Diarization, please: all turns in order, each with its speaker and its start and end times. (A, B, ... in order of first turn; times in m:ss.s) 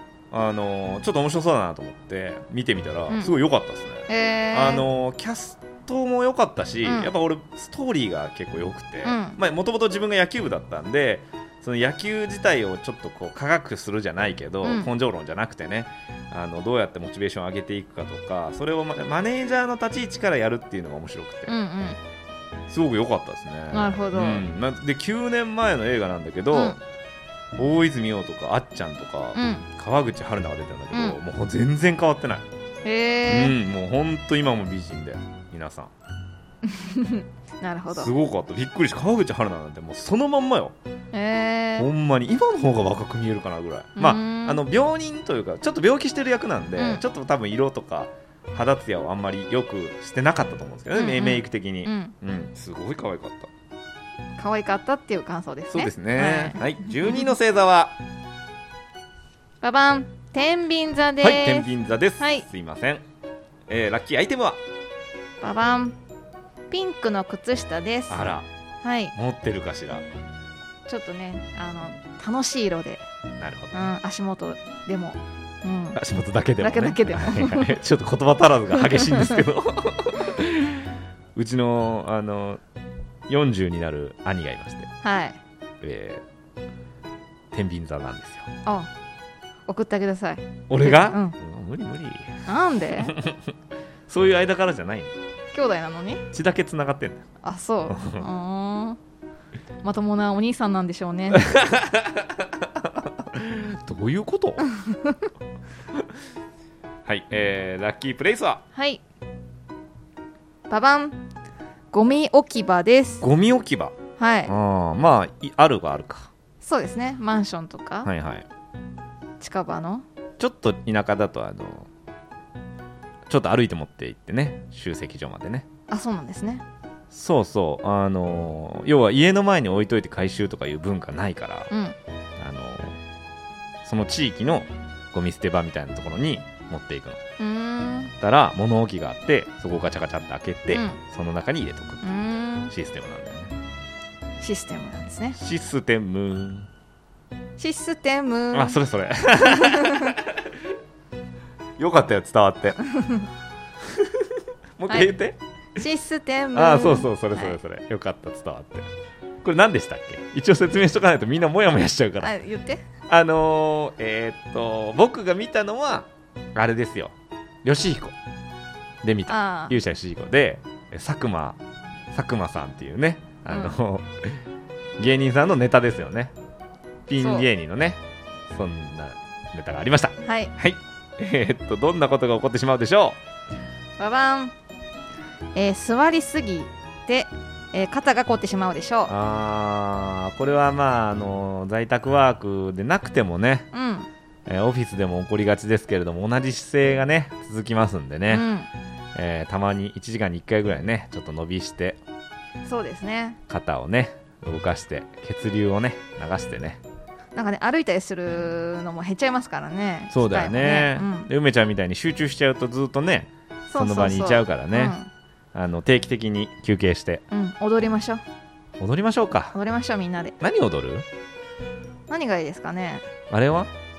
0:00.3-0:21.6 A
0:03.1-0:03.4 B
0:04.1-0:04.9 B
0:06.8-0:07.1 B
0:09.0-0:09.4 B
0:14.6-0:14.9 B
0:21.5-0:22.0 B
0:22.7-0:26.8 A
0:23.7-0:24.4 B
0:26.5-0:26.8 B
0:27.6-0:32.5 A
0:29.4-0:29.7 B
0:32.8-0:33.6 B
0:33.3-0:35.9 A
0:36.6-0:38.1 B
0:37.9-0:40.8 A
0:41.1-0:41.9 B
0:41.8-0:53.5 A
0:44.0-0:44.6 B
0:46.8-0:47.0 B
0:50.9-0:52.1 B
0:54.4-0:57.3 B
0:55.7-0:58.0 A
0:59.6-1:02.5 B
1:01.2-1:03.0 A
1:03.7-1:04.6 A
1:05.4-1:06.0 B
1:06.7-1:08.3 B
1:08.1-1:08.5 A
1:08.8-1:09.1 B
1:09.1-1:10.0 A
1:10.9-1:13.0 B
1:13.4-1:13.9 A
1:13.7-1:16.0 B
1:16.0-1:22.6 A
1:16.6-1:17.8 B
1:18.8-1:19.4 B
1:23.3-1:24.9 A
1:25.0-1:25.4 B
1:25.8-1:26.2 A
1:27.5-1:28.5 A
1:28.6-1:28.9 B
1:29.7-1:31.4 B
1:30.7-1:32.4 A
1:32.5-1:33.2 B
1:33.0-1:33.4 A
1:34.1-1:35.1 A
1:35.5-1:36.3 B
1:36.3-1:37.3 A
1:37.4-1:39.0 B
1:37.9-1:38.3 A
1:39.8-1:41.5 B
1:41.3-1:44.7 A
1:44.7-1:45.3 B
1:47.1-1:48.6 A
1:48.8-1:49.0 B
1:50.7-1:51.2 B
1:51.9-1:53.2 B
1:53.2-1:54.0 A
1:54.2-1:54.5 B
1:54.5-1:56.3 A
1:56.6-1:58.1 B
1:58.0-1:58.5 A
1:59.4-2:00.0 B
2:00.4-2:01.9 A
2:03.3-2:05.7 A
2:05.9-2:06.6 B
2:07.1-2:11.7 A
2:11.7-2:12.0 B
2:12.4-2:13.0 A
2:13.8-2:17.2 A
2:17.4-2:18.2 B
2:18.2-2:23.5 A
2:20.7-2:21.0 B
2:22.0-2:22.7 B
2:24.4-2:25.4 B
2:25.4-2:26.7 A
2:27.6-2:28.8 B
2:28.5-2:30.5 A
2:29.4-2:30.2 B
2:31.8-2:32.8 A
2:33.0-2:33.3 B
2:33.9-2:35.4 A
2:35.8-2:37.6 B
2:36.5-2:38.9 A
2:39.4-2:42.3 A
2:42.2-2:42.8 B
2:43.1-2:48.2 A
2:49.0-2:51.6 A
2:49.3-2:49.8 B
2:52.1-2:54.4 A
2:53.5-2:53.8 B
2:55.0-2:56.3 A
2:57.1-3:03.2 A
2:57.2-2:57.5 B
3:00.2-3:00.5 B
3:04.0-3:04.5 B
3:05.6-3:09.1 B
3:09.1-3:13.7 A
3:13.7-3:14.1 B
3:14.5-3:18.5 A
3:18.3-3:18.7 B
3:19.2-3:22.0 A
3:22.6-3:23.4 B
3:23.5-3:26.8 A
3:27.4-3:31.3 B
3:30.1-3:35.0 A
3:33.7-3:35.1 B
3:35.5-3:37.2 A
3:37.3-3:38.2 B
3:38.8-3:39.6 A
3:39.5-3:40.4 B
3:40.4-3:41.1 A
3:42.1-3:43.1 B
3:43.3-3:43.7 A